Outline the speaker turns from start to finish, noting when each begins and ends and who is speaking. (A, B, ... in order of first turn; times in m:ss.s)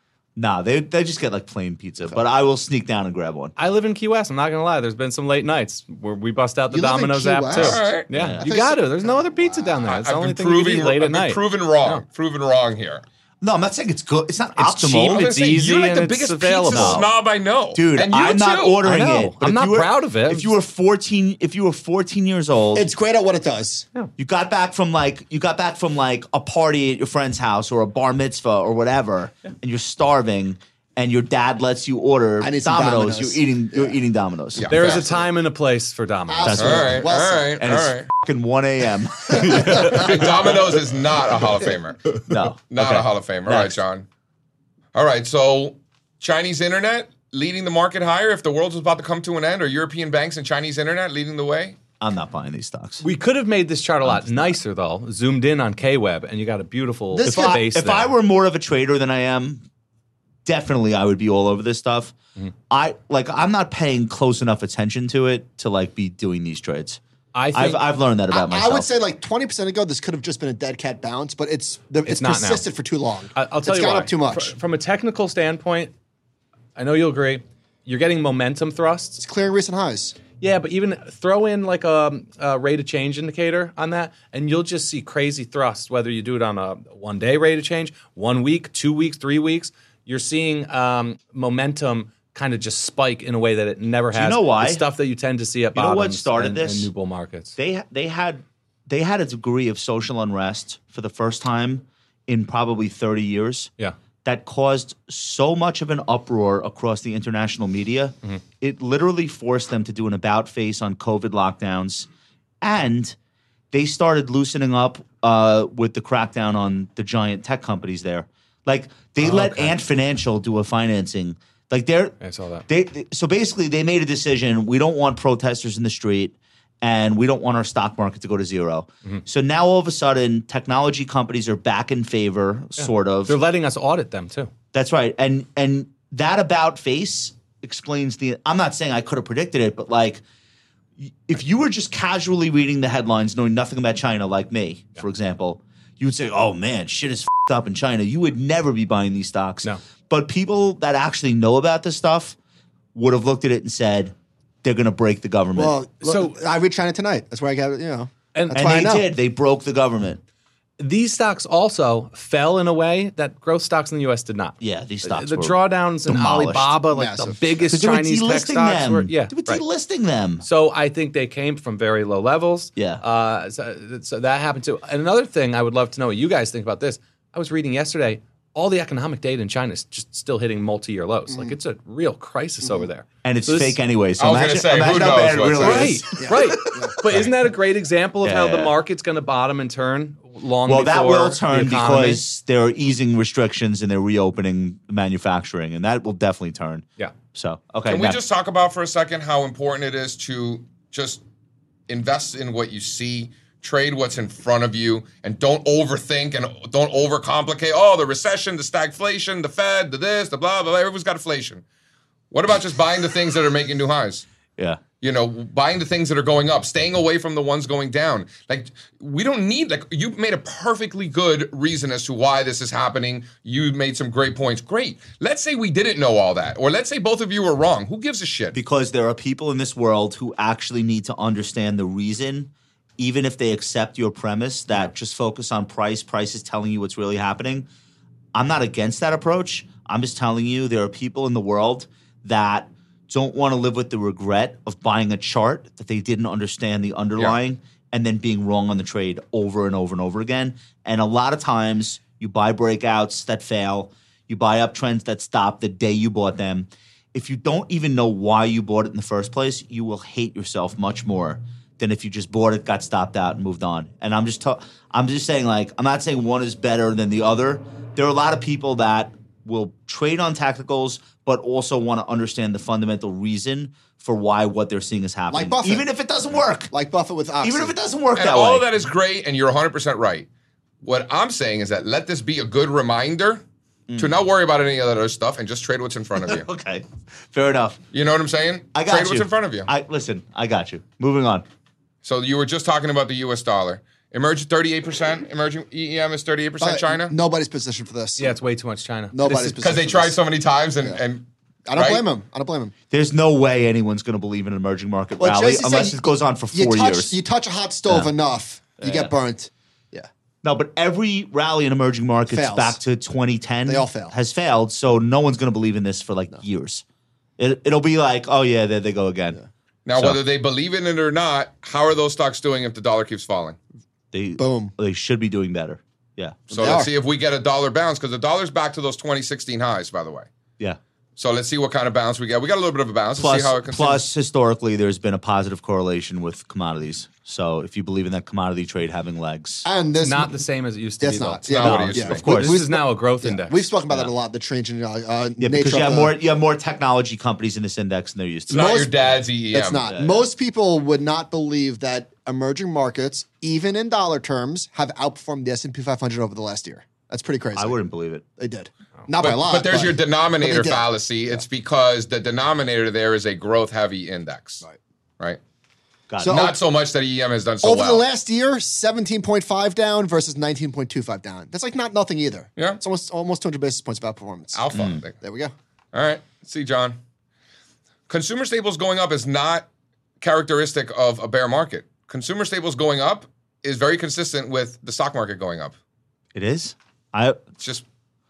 0:00.4-0:03.6 A
0:03.6-0:12.0 B
0:06.7-0:09.8 C
0:07.5-0:08.1 D
0:08.1-0:08.5 A
0:09.9-0:13.0 D
0:13.4-0:15.3 A
0:14.6-0:17.1 B
0:15.0-0:18.8 D
0:16.7-0:17.1 A
0:17.7-0:22.9 A
0:18.8-0:20.5 B
0:22.7-0:23.9 C
0:24.2-0:34.8 A
0:32.4-0:34.0 C
0:34.6-0:35.2 D
0:34.7-0:36.8 B
0:36.3-0:37.5 C
0:36.4-0:37.1 A
0:36.6-0:38.1 D
0:37.6-0:40.4 A
0:39.4-0:40.2 B
0:39.6-0:40.1 C
0:39.8-0:42.1 D
0:42.2-0:43.8 A
0:42.7-0:44.1 D
0:44.9-0:51.8 D
0:52.0-0:53.0 A
0:53.0-0:58.1 B
0:54.0-0:54.6 A
0:57.1-0:57.6 C
0:57.2-0:59.6 A
1:00.4-1:02.2 A
1:02.7-1:07.0 A
1:07.4-1:07.8 B
1:07.5-1:09.0 A
1:08.3-1:14.6 C
1:12.1-1:12.7 B
1:13.4-1:15.9 B
1:16.8-1:19.2 B
1:19.2-1:20.2 C
1:20.4-1:37.6 B
1:34.1-1:34.9 A
1:35.8-1:36.9 A
1:37.6-1:43.7 A
1:44.2-1:52.1 A
1:52.6-1:53.2 A
1:53.7-2:13.4 A
1:59.2-1:59.8 B
2:02.2-2:02.7 B
2:12.8-2:14.5 B
2:14.7-2:20.2 A
2:21.0-2:32.4 A
2:32.9-2:35.8 A
2:35.6-2:39.0 C
2:36.0-2:36.4 B
2:38.3-2:38.8 B
2:38.5-2:40.2 A
2:40.8-2:49.6 B
2:44.6-2:46.8 A
2:46.9-2:47.7 C
2:47.7-2:50.4 A
2:50.4-3:03.8 B
2:52.8-2:53.0 A
3:01.3-3:01.6 C
3:03.2-3:07.3 A
3:04.2-3:06.0 D
3:05.6-3:12.2 B
3:06.2-3:07.0 C
3:08.2-3:08.8 A
3:10.6-3:18.2 A
3:17.9-3:21.2 D
3:21.9-3:31.6 D
3:32.3-3:34.2 D
3:34.6-3:34.8 A
3:35.0-3:48.6 D
3:48.5-3:57.7 A
3:58.3-4:36.7 A
4:35.3-4:35.9 C
4:36.7-4:37.7 C
4:37.4-4:38.7 A
4:38.2-4:40.3 D
4:40.8-4:43.4 D
4:43.9-4:44.2 A
4:44.0-4:46.5 D
4:46.2-4:47.8 A
4:47.9-4:49.7 D
4:48.8-4:51.4 A
4:52.0-4:57.1 D
4:56.6-4:58.4 C
4:58.2-4:59.6 B
4:59.1-5:00.2 C
4:59.6-5:02.0 D
5:01.7-5:02.7 C
5:02.9-5:07.2 A
5:05.2-5:10.1 C
5:08.8-5:09.1 A
5:10.4-5:16.8 A
5:12.3-5:12.8 C
5:13.7-5:14.1 C
5:17.4-5:19.4 A
5:19.8-5:23.6 D
5:24.1-5:26.9 A
5:24.4-5:24.7 C
5:26.5-5:26.9 C
5:26.5-5:30.3 D
5:31.2-5:34.1 D
5:33.2-5:39.7 A
5:39.6-5:40.4 C
5:40.0-5:44.1 B
5:41.0-5:46.1 C
5:41.5-5:42.3 D
5:41.5-5:42.6 A
5:45.4-5:48.8 A
5:48.5-5:57.8 C
5:48.5-5:49.9 D
5:49.9-5:50.3 A
5:57.6-5:58.2 A
5:58.4-6:00.9 C
5:59.2-6:04.6 D
6:06.1-6:06.4 A
6:06.2-6:06.6 C
6:06.2-6:08.0 D
6:07.6-6:14.6 C
6:14.5-6:15.2 D
6:14.7-6:15.0 A
6:15.2-6:15.5 C
6:15.9-6:17.0 D
6:18.1-6:19.7 D
6:20.2-6:25.8 D
6:26.3-6:27.4 A
6:27.6-6:27.8 D